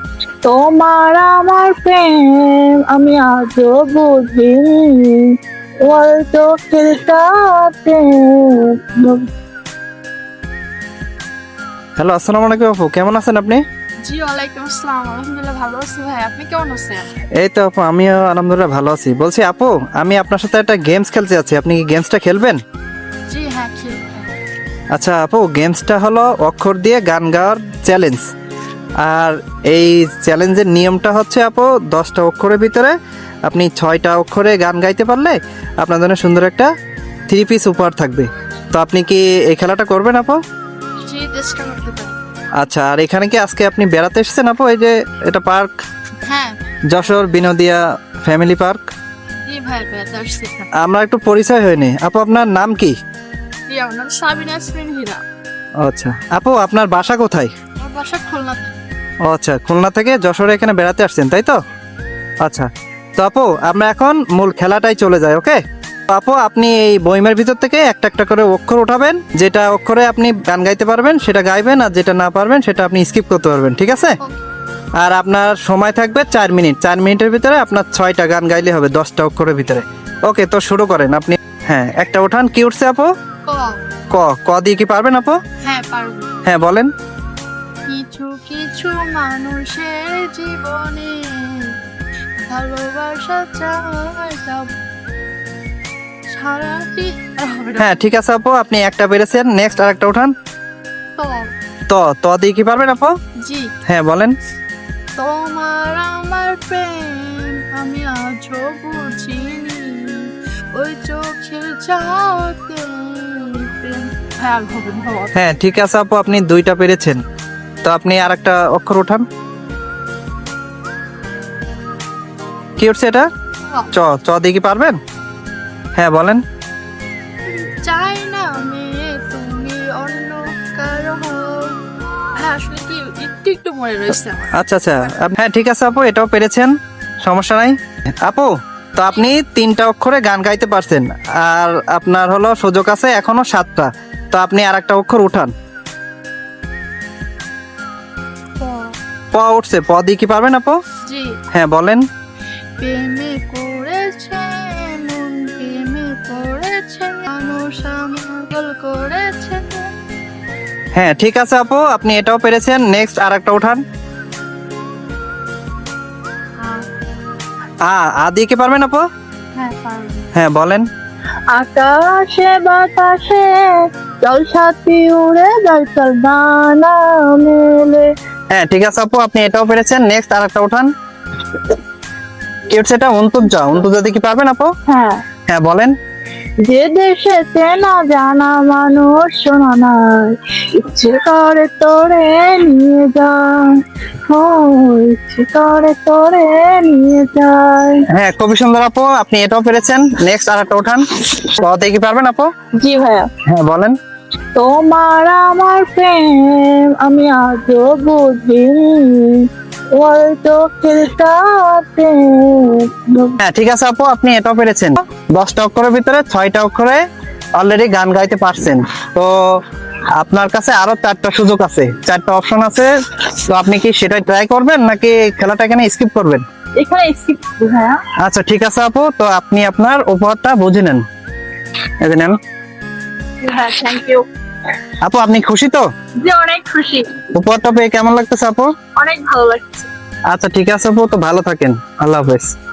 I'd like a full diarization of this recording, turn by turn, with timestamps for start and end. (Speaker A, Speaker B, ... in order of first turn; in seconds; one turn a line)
Speaker A: 0.4-9.3
Speaker B: 12.0-13.6
Speaker C: 14.0-17.1
Speaker B: 17.4-22.6
Speaker C: 23.3-24.3
Speaker B: 24.9-28.2
Speaker B: 29.0-32.9
Speaker B: 33.5-36.7
Speaker B: 37.3-40.4
Speaker C: 41.0-42.2
Speaker B: 42.6-45.7
Speaker C: 46.2-46.6
Speaker B: 46.9-48.8
Speaker C: 49.5-50.7
Speaker B: 50.8-52.9
Speaker C: 53.7-55.2
Speaker B: 55.8-57.5
Speaker C: 57.8-58.7
Speaker B: 59.2-61.6
Speaker B: 62.4-65.6
Speaker B: 66.1-74.2
Speaker B: 75.0-83.1
Speaker C: 83.5-83.8
Speaker B: 84.1-85.4
Speaker C: 85.6-86.4
Speaker B: 86.4-86.9
Speaker C: 87.9-91.8
Speaker C: 92.4-94.7
Speaker C: 96.3-98.0
Speaker B: 97.8-100.3
Speaker C: 101.2-101.5
Speaker B: 101.9-103.1
Speaker C: 103.4-103.7
Speaker B: 103.9-104.3
Speaker C: 105.2-115.3
Speaker B: 115.3-117.2
Speaker B: 117.8-119.2
Speaker B: 122.8-123.3
Speaker B: 123.9-125.0
Speaker B: 126.0-126.4
Speaker C: 127.5-131.8
Speaker C: 132.3-134.5
Speaker B: 134.5-136.7
Speaker B: 137.2-145.5
Speaker C: 148.6-148.9
Speaker B: 149.3-150.8
Speaker C: 151.0-151.4
Speaker B: 151.5-152.0
Speaker C: 152.8-159.9
Speaker B: 160.9-163.8
Speaker C: 166.6-166.8
Speaker B: 167.9-169.0
Speaker C: 169.5-170.3
Speaker B: 170.3-170.8
Speaker A: 171.5-178.1
Speaker B: 178.5-180.9
Speaker B: 182.7-184.7
Speaker A: 184.9-185.2
Speaker B: 185.5-185.9
Speaker A: 186.6-198.0
Speaker B: 198.1-202.5
Speaker A: 202.8-203.3
Speaker B: 203.5-203.9
Speaker A: 204.6-213.4
Speaker B: 213.4-217.0
Speaker B: 217.6-219.3
Speaker B: 220.2-226.4
Speaker A: 226.8-228.0
Speaker B: 228.2-231.0
Speaker B: 232.0-232.3
Speaker A: 233.4-234.2
Speaker B: 235.0-235.8
Speaker A: 236.2-237.2
Speaker B: 237.3-238.7
Speaker A: 238.9-239.9
Speaker B: 240.3-242.5